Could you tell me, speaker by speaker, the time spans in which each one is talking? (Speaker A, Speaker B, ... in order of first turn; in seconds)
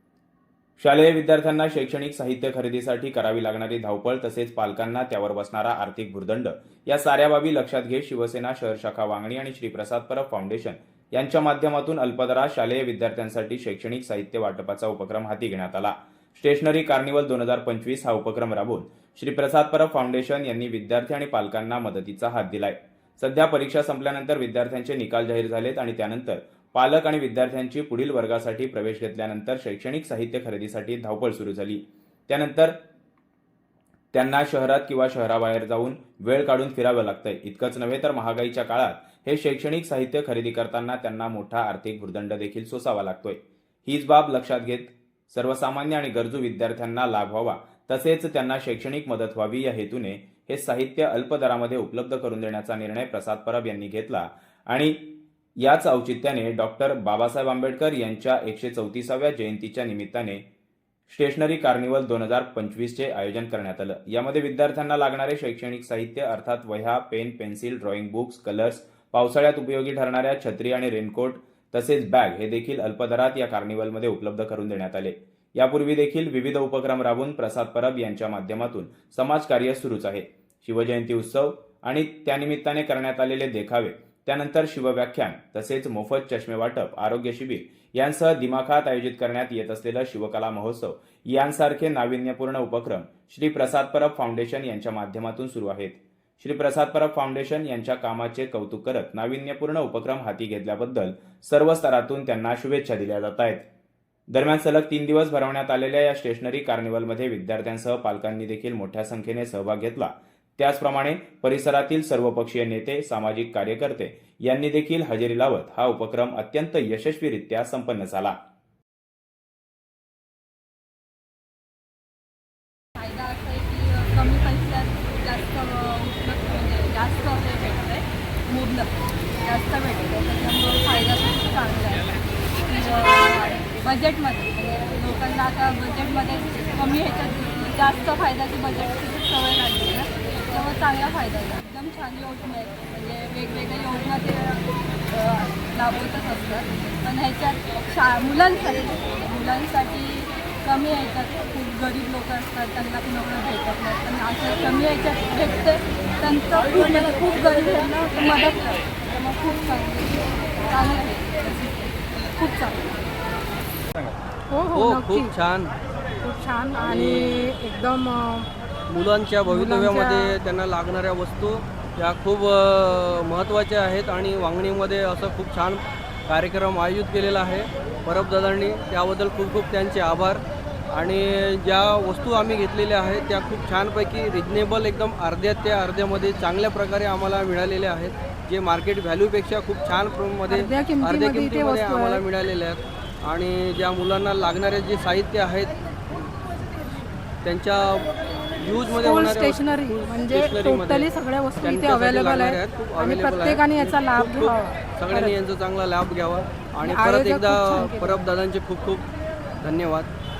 Speaker A: 0.8-32.8, 34.1-60.4, 61.1-103.7, 104.3-118.3
Speaker B: 123.0-128.9, 129.4-162.9
Speaker C: 164.5-165.3, 166.2-168.5, 169.4-170.3, 190.5-192.2, 198.8-205.3, 206.9-208.4
Speaker D: 164.8-165.7, 166.9-167.3, 168.9-195.7, 197.4-209.1, 209.6-210.1